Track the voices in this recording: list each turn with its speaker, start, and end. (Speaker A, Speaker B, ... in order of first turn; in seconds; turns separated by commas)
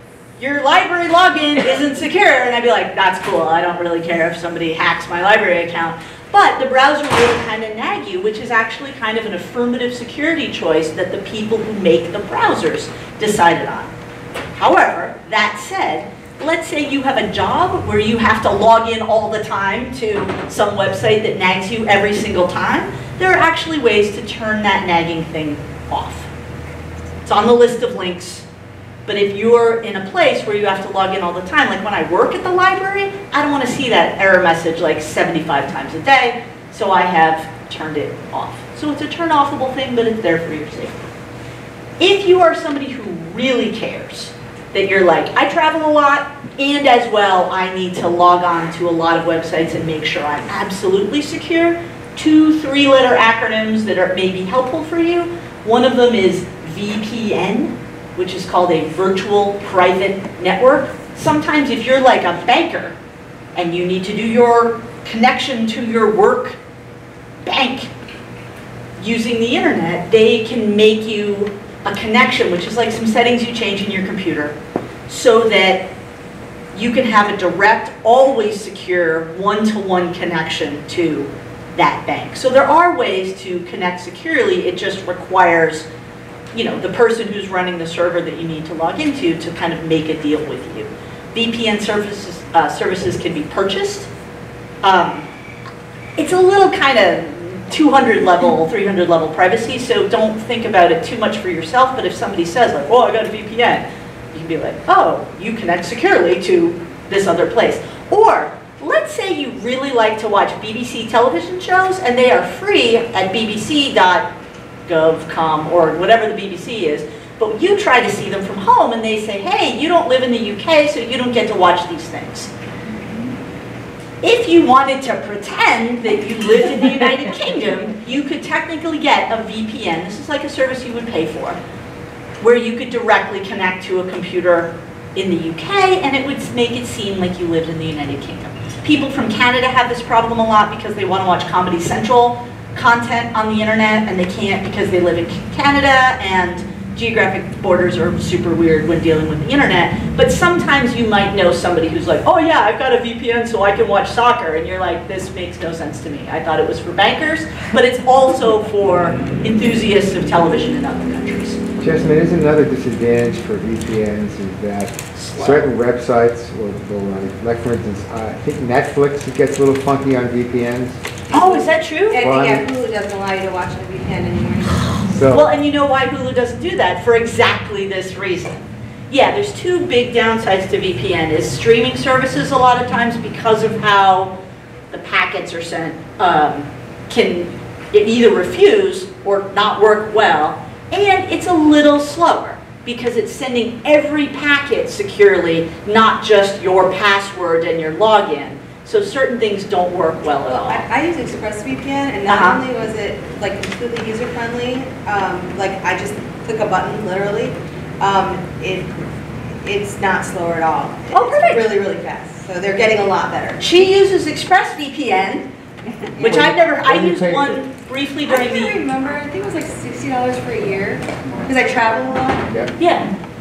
Speaker A: 0.4-13.9, Speaker A: 14.5-26.3, Speaker A: 27.2-28.4, Speaker A: 29.1-41.1, Speaker A: 42.0-62.9, Speaker A: 63.5-66.6, Speaker A: 67.4-67.9, Speaker A: 69.0-74.5, Speaker A: 75.1-75.9, Speaker A: 76.7-85.9, Speaker A: 86.5-94.1, Speaker A: 94.8-95.2, Speaker A: 96.2-114.3, Speaker A: 114.9-122.5, Speaker A: 124.2-131.6, Speaker A: 132.4-161.6, Speaker B: 161.8-171.0, Speaker A: 165.1-165.7, Speaker A: 171.3-172.2, Speaker C: 171.4-175.1, Speaker B: 172.2-172.7, Speaker B: 175.1-175.4, Speaker A: 175.3-184.3, Speaker A: 184.9-200.8, Speaker C: 200.4-208.9, Speaker A: 202.2-202.6, Speaker C: 209.6-213.6, Speaker A: 211.1-211.6, Speaker A: 213.6-215.5, Speaker A: 216.2-218.8, Speaker B: 216.2-217.6, Speaker C: 218.2-222.5, Speaker A: 222.8-223.1